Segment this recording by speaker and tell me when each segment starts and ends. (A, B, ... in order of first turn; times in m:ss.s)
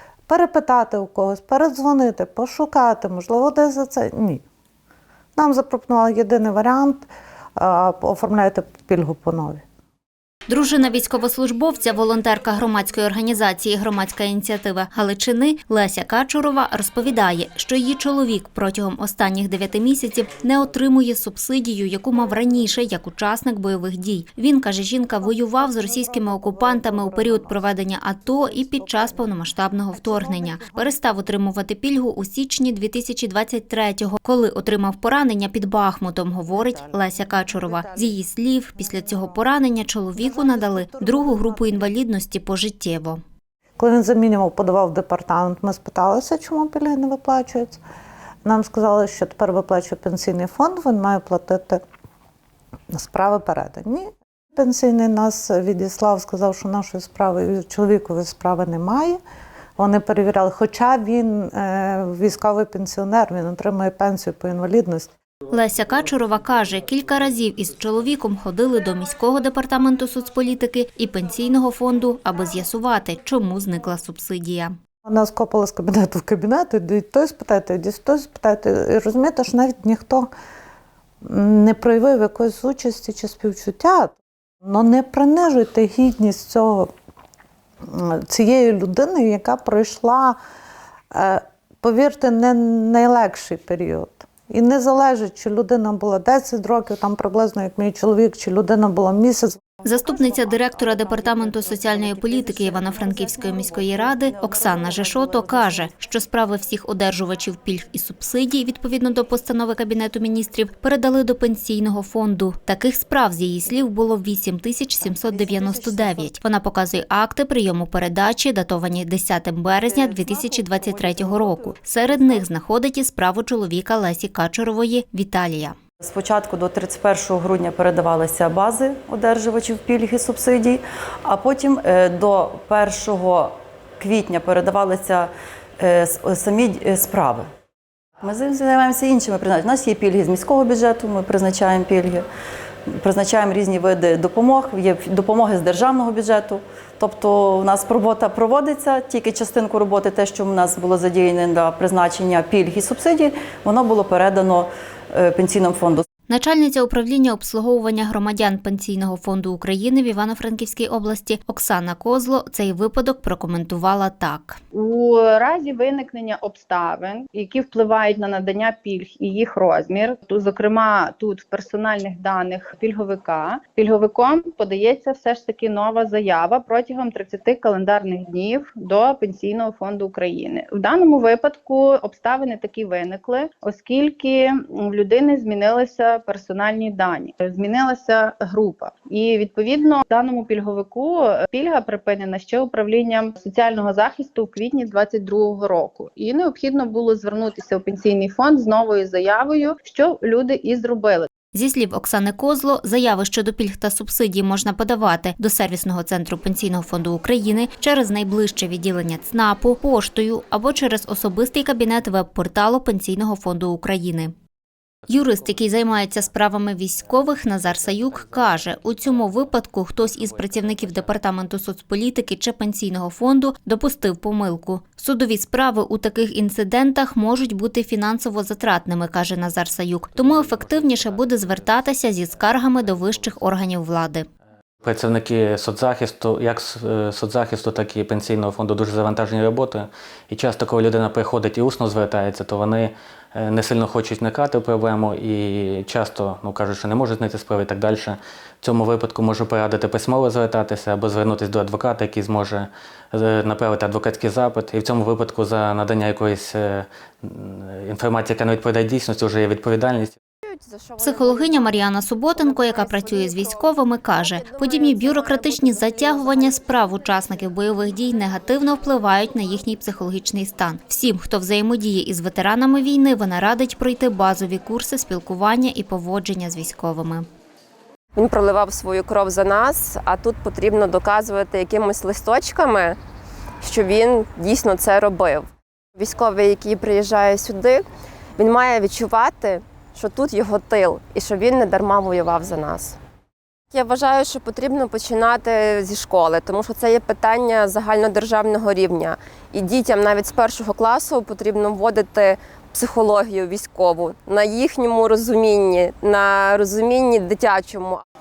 0:00.3-0:04.4 A
0:05.4-0:07.1 A
0:07.6-0:09.6 A
0:10.5-0:43.2 B
0:25.2-0:27.8 A
0:28.4-0:29.3 A
0:29.9-0:31.0 A
0:36.5-0:38.2 A
0:38.8-0:39.4 A
0:40.2-0:42.0 A
0:43.8-0:47.8 A
0:48.4-0:51.8 A
0:52.9-0:59.2 A
0:59.8-1:05.1 A
1:05.5-1:14.8 B
1:15.1-1:20.3 A
1:21.2-1:24.1 A
1:24.6-1:26.9 A
1:27.8-1:30.4 A
1:31.1-1:39.6 A
1:39.8-2:05.8 B
1:39.9-1:45.9 C
1:55.0-1:56.3 C
1:59.7-2:02.5 C
2:06.0-2:17.5 C
2:18.2-2:22.3 C
2:22.9-2:36.0 C
2:36.3-2:44.6 B
2:44.8-3:21.3 D
3:21.5-3:34.3 B
3:35.1-3:36.1 E
3:35.1-3:54.3 B
3:37.1-3:41.2 E
3:50.2-3:53.6 E
3:54.8-4:20.2 E
4:20.5-4:27.0 F
4:21.0-4:37.3 B
4:38.2-4:43.0 F
4:43.6-4:47.9 F
4:48.4-4:53.0 F
4:53.7-5:08.0 F